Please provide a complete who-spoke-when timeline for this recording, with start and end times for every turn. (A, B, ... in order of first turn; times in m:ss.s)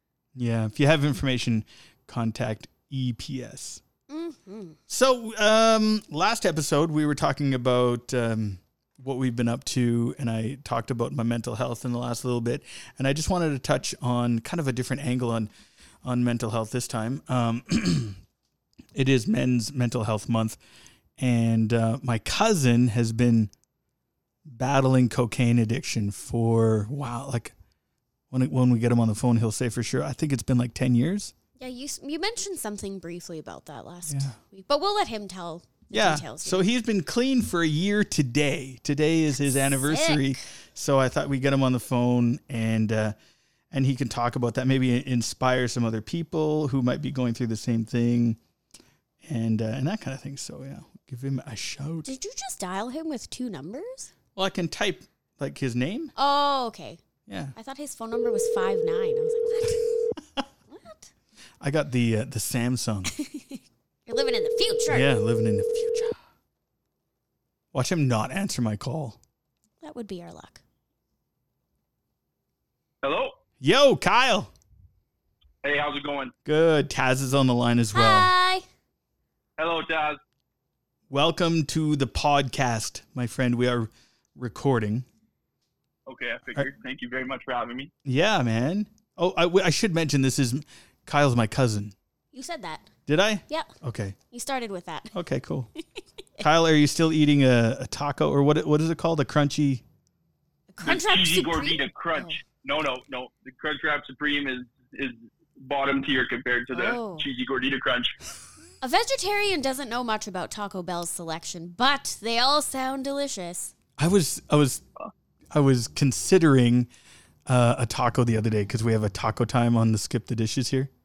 0:00.4-0:03.8 A
0:04.1-0:04.8 B
0:04.9-0:15.5 A
0:16.0-0:18.2 A
0:18.9-0:20.6 A
0:21.2-0:23.5 A
0:24.4-0:27.5 A
0:28.3-0:31.3 A
0:31.6-0:36.6 B
0:34.1-0:34.4 A
0:35.9-0:43.1 A
0:39.4-0:40.4 B
0:43.7-0:48.4 A
0:49.2-0:52.1 A
0:52.0-0:54.1 B
0:54.3-0:56.1 A
0:56.2-0:57.0 B
0:57.3-0:57.5 A
0:57.5-1:00.1 B
1:00.7-1:01.1 B
1:01.6-1:03.1 A
1:03.1-1:05.1 B
1:04.9-1:06.2 A
1:07.7-1:09.2 A
1:09.8-1:10.6 B
1:13.0-1:13.3 C
1:13.6-1:14.5 A
1:15.6-1:16.3 C
1:16.4-1:18.3 A
1:17.9-1:18.6 B
1:19.6-1:20.2 C
1:21.1-1:25.0 A
1:26.1-1:27.9 C
1:28.0-1:31.9 A
1:32.3-1:32.9 B
1:33.1-1:34.2 A
1:34.3-1:35.1 B
1:35.1-1:35.7 A
1:36.4-1:39.8 A
1:40.7-1:42.4 B
1:40.8-1:48.1 C
1:46.7-1:47.2 B
1:48.8-1:53.7 B
1:54.0-1:54.8 A
1:55.5-1:56.9 A
1:57.5-2:00.9 A